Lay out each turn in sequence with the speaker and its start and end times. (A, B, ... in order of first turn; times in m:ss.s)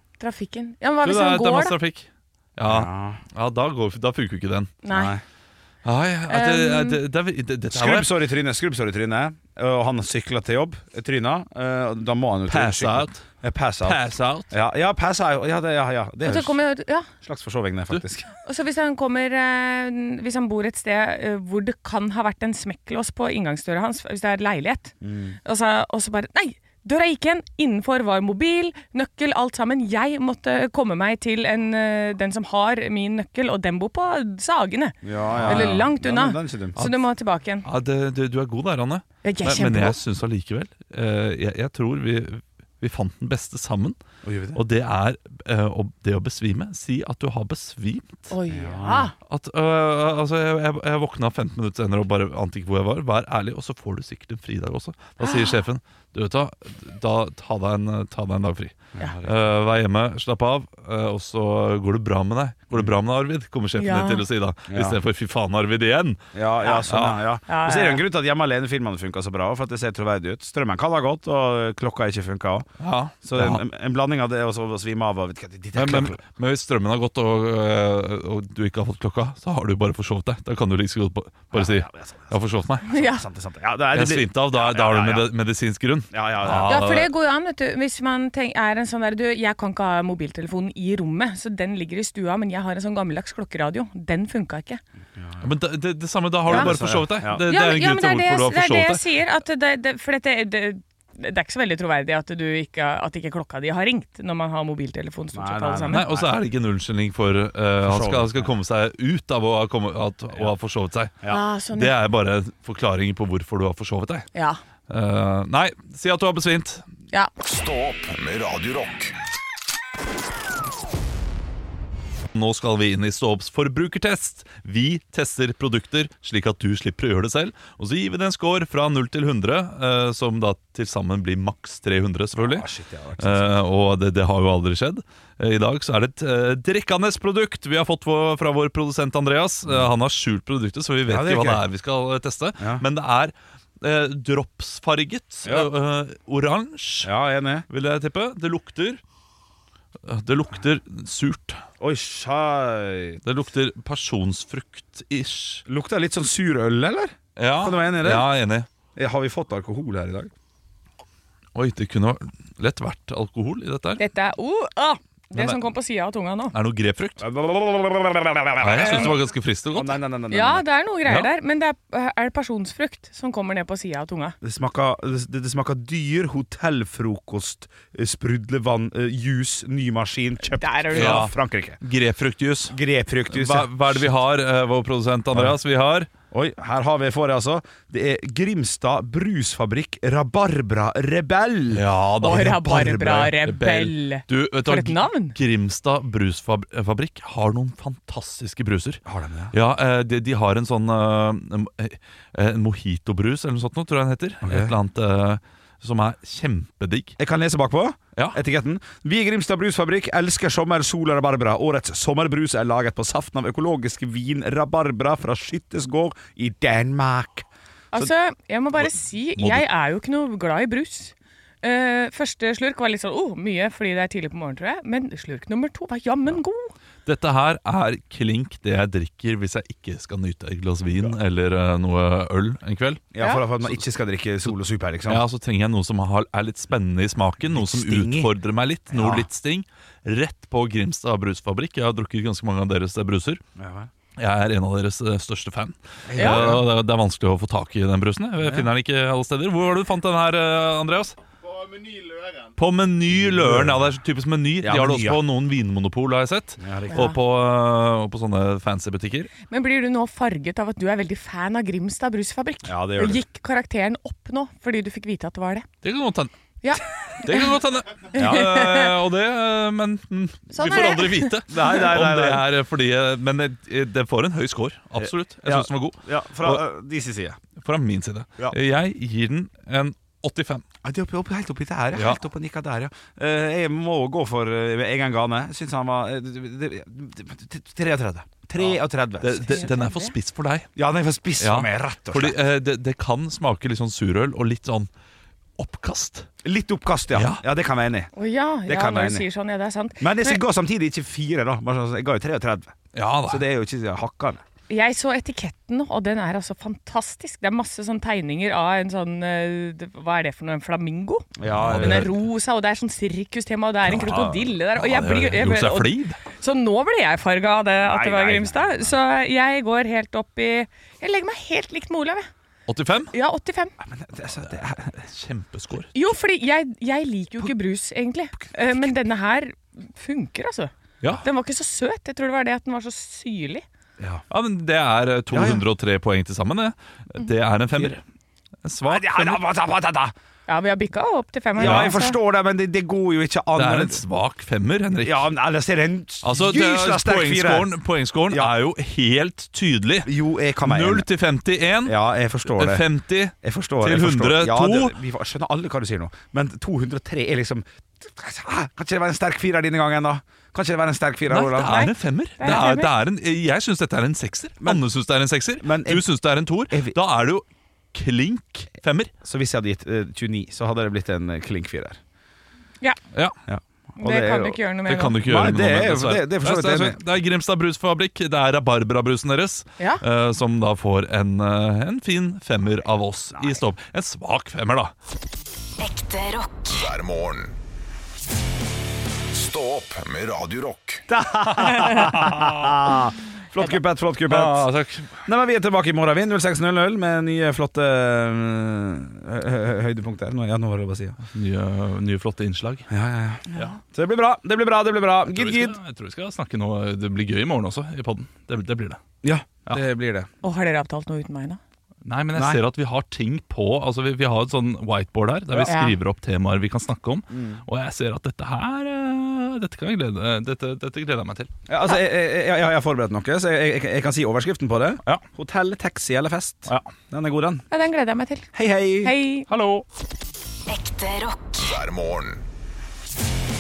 0:00.2-0:01.8 A
0:01.0-0:04.8 B
0:02.6-0:03.2 C
0:04.8-0:05.2 A
0:04.9-0:05.2 C
0:05.8-0:08.1 B
0:06.3-0:07.0 A
0:07.7-0:16.6 C
0:12.5-0:13.2 B
0:13.8-0:14.5 B
0:16.2-0:17.1 A
0:17.2-0:18.3 C
0:18.4-0:24.9 A
0:25.0-0:25.4 C
0:25.4-0:37.6 A
0:35.0-0:36.8 C
0:35.3-0:35.9 B
0:36.8-0:37.1 B
0:37.6-0:44.0 B
0:39.2-0:40.0 A
0:44.2-0:44.6 C
0:44.5-0:48.3 B
0:48.3-0:49.1 A
0:48.5-0:49.1 C
0:49.2-1:06.2 B
0:55.2-0:55.6 A
0:59.0-0:59.6 C
1:03.8-1:04.2 A
1:04.7-1:05.0 C
1:06.3-1:12.7 C
1:06.9-1:07.2 B
1:07.5-1:08.0 A
1:12.8-1:13.6 B
1:13.2-1:16.2 C
1:15.7-1:23.0 B
1:21.5-1:25.3 C
1:22.9-1:23.2 A
1:23.9-1:27.1 B
1:26.1-1:26.9 C
1:26.6-1:34.8 A
1:35.2-1:35.5 C
1:35.4-1:39.0 B
1:36.4-1:37.4 C
1:36.5-1:36.8 A
1:37.4-1:46.0 A
1:45.3-1:46.3 C
1:45.9-1:54.3 B
1:47.8-1:48.5 C
1:51.3-1:52.0 A
1:54.9-1:56.8 B
1:57.4-1:59.1 D
2:02.3-2:12.7 B
2:12.4-2:13.5 C
2:13.2-2:27.1 B
2:21.1-2:21.6 C
2:22.6-2:22.8 C
2:27.0-2:27.6 C
2:27.7-2:29.0 B
2:30.0-2:31.6 B
2:31.8-2:33.2 C
2:33.2-2:35.6 B
2:35.6-2:38.3 C
2:37.4-2:38.7 B
2:39.0-2:40.3 C
2:41.5-2:44.0 B
2:44.0-2:46.5 A
2:45.3-2:45.6 B
2:46.5-2:47.2 B
2:47.2-2:49.2 C
2:48.6-2:50.0 B
2:48.8-2:49.1 A
2:49.7-2:50.6 C
2:50.3-2:54.4 A
2:51.0-2:51.3 B
2:54.4-3:01.8 C
3:00.5-3:01.3 A
3:00.9-3:02.8 B
3:02.7-3:04.1 C
3:03.3-3:06.1 B
3:06.3-3:11.8 C
3:11.7-3:19.0 B
3:12.2-3:15.4 A
3:19.0-3:19.5 C
3:19.5-3:27.1 B
3:24.4-3:24.7 C
3:27.2-3:38.1 C
3:37.9-3:46.7 A
3:38.8-3:39.7 B
3:47.0-3:53.1 B
3:53.1-3:55.2 C
3:55.1-4:03.4 B
3:57.4-3:58.3 C
3:58.9-3:59.3 C
4:03.6-4:03.9 C
4:04.2-4:11.2 B
4:06.1-4:06.6 C
4:06.2-4:06.5 A
4:12.6-4:19.3 B
4:13.1-4:13.9 C
4:14.6-4:15.2 C
4:16.6-4:17.1 C
4:16.9-4:17.2 A
4:19.5-4:25.7 A
4:22.6-4:23.2 C
4:25.8-4:26.3 B
4:26.6-4:27.5 A
4:27.2-4:36.6 B
4:28.1-4:28.5 C
4:28.1-4:28.9 A
4:30.5-4:31.3 A
4:31.5-4:32.5 C
4:35.0-4:37.4 C
4:37.6-4:40.6 B
4:40.8-4:49.7 C
4:41.9-4:42.2 B
4:48.6-4:50.7 B
4:49.4-4:50.1 A
4:50.8-4:52.4 C
4:51.4-4:54.9 B
4:55.6-4:56.3 B
4:56.4-4:58.1 C
4:57.1-4:57.4 B
4:58.2-5:00.4 A
4:58.6-4:59.2 C
5:00.0-5:02.7 C
5:02.9-5:03.4 B
5:03.3-5:04.4 C
5:04.7-5:22.3 A
5:11.4-5:12.1 C
5:11.5-5:12.1 B
5:13.8-5:14.4 C
5:13.8-5:16.2 B
5:17.8-5:19.0 C
5:22.7-5:23.1 B
5:23.1-5:23.7 A
5:23.8-5:25.0 C
5:24.3-5:25.9 B
5:25.9-5:30.7 A
5:28.4-5:28.9 C
5:31.2-5:33.6 A
5:34.0-5:34.2 C
5:34.3-5:38.0 B
5:35.3-5:35.6 C
5:38.6-5:39.4 B
5:38.9-5:40.1 C
5:40.5-5:42.2 A
5:41.5-5:44.0 C
5:41.6-5:42.0 B
5:43.6-5:45.3 B
5:45.0-5:47.8 C
5:46.2-5:54.9 B
5:50.0-5:51.1 C
5:51.8-5:52.9 C
5:53.4-6:01.9 C
6:01.3-6:09.1 B
6:01.7-6:02.9 A
6:05.6-6:06.0 C
6:06.7-6:07.0 C
6:09.2-6:12.0 C
6:13.5-6:14.6 C
6:14.0-6:15.2 A
6:14.8-6:24.9 B
6:15.1-6:17.0 C
6:25.8-6:26.9 E
6:26.7-6:27.6 D
6:29.3-6:31.1 D
6:31.1-6:34.7 C
6:32.0-6:32.7 B
6:34.3-6:35.2 B
6:35.2-6:41.2 C
6:41.3-6:42.9 B
6:42.9-6:45.8 C
6:45.3-6:49.0 B
6:49.2-6:50.3 C
6:50.4-6:51.6 A
6:52.0-7:01.5 B
6:52.3-6:52.6 C
6:55.5-6:55.8 C
6:55.7-6:55.9 A
6:57.3-6:57.6 C
7:01.7-7:07.7 C
7:07.7-7:08.5 A
7:08.5-7:09.1 C
7:09.0-7:09.5 A
7:09.5-7:09.8 B
7:10.7-7:11.5 E
7:11.5-7:12.4 D